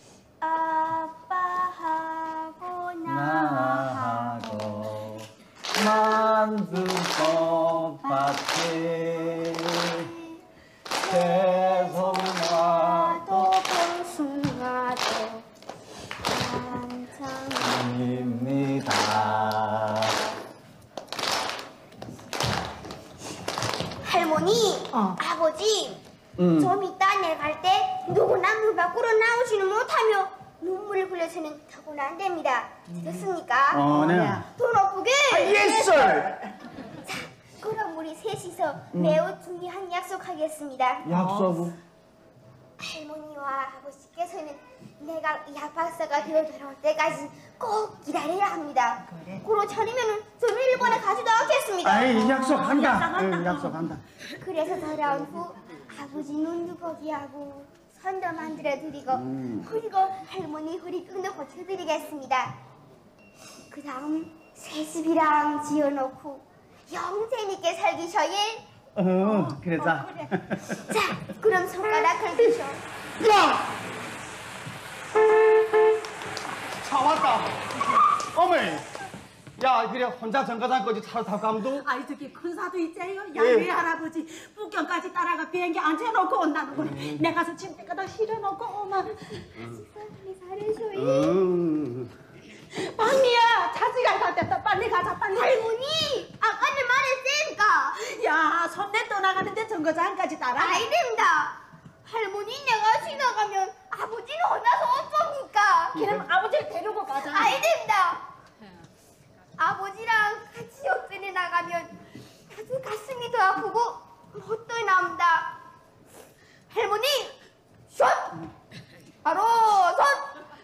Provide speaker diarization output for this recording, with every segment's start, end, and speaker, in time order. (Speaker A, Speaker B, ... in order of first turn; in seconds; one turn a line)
Speaker A: 0.4-4.9
Speaker B: 3.1-10.1
Speaker A: 5.8-6.4
Speaker A: 8.1-8.3
Speaker A: 9.9-10.4
Speaker B: 11.0-13.5
Speaker A: 11.0-15.4
Speaker A: 16.2-17.9
Speaker B: 17.6-20.2
Speaker A: 24.0-26.0
Speaker C: 24.9-25.2
Speaker B: 26.4-26.8
Speaker A: 26.6-33.9
Speaker B: 33.7-34.5
Speaker C: 33.9-34.5
Speaker A: 34.5-35.9
Speaker B: 35.3-36.5
Speaker A: 37.0-41.1
Speaker B: 38.9-39.2
Speaker B: 41.0-41.8
Speaker C: 41.1-41.6
Speaker A: 42.8-52.5
Speaker C: 49.1-49.4
Speaker B: 51.8-54.0
Speaker C: 52.4-53.9
Speaker A: 54.4-62.6
Speaker B: 59.1-59.7
Speaker A: 63.7-68.6
Speaker B: 69.0-70.8
Speaker C: 69.2-70.3
Speaker A: 70.9-72.8
Speaker B: 76.8-78.9
Speaker B: 79.6-81.9
Speaker C: 81.6-89.5
Speaker B: 83.3-83.7
Speaker B: 86.8-87.2
Speaker A: 89.5-91.4
Speaker B: 91.0-92.1
Speaker C: 92.7-95.6
Speaker A: 95.3-97.9
Speaker C: 97.9-100.9
Speaker A: 100.5-106.0
Speaker B: 105.9-106.3
Speaker C: 105.9-107.6
Speaker A: 107.2-108.2
Speaker A: 109.6-111.9
Speaker A: 112.5-115.5
Speaker A: 116.7-117.4
Speaker A: 117.9-118.4
Speaker A: 119.2-120.3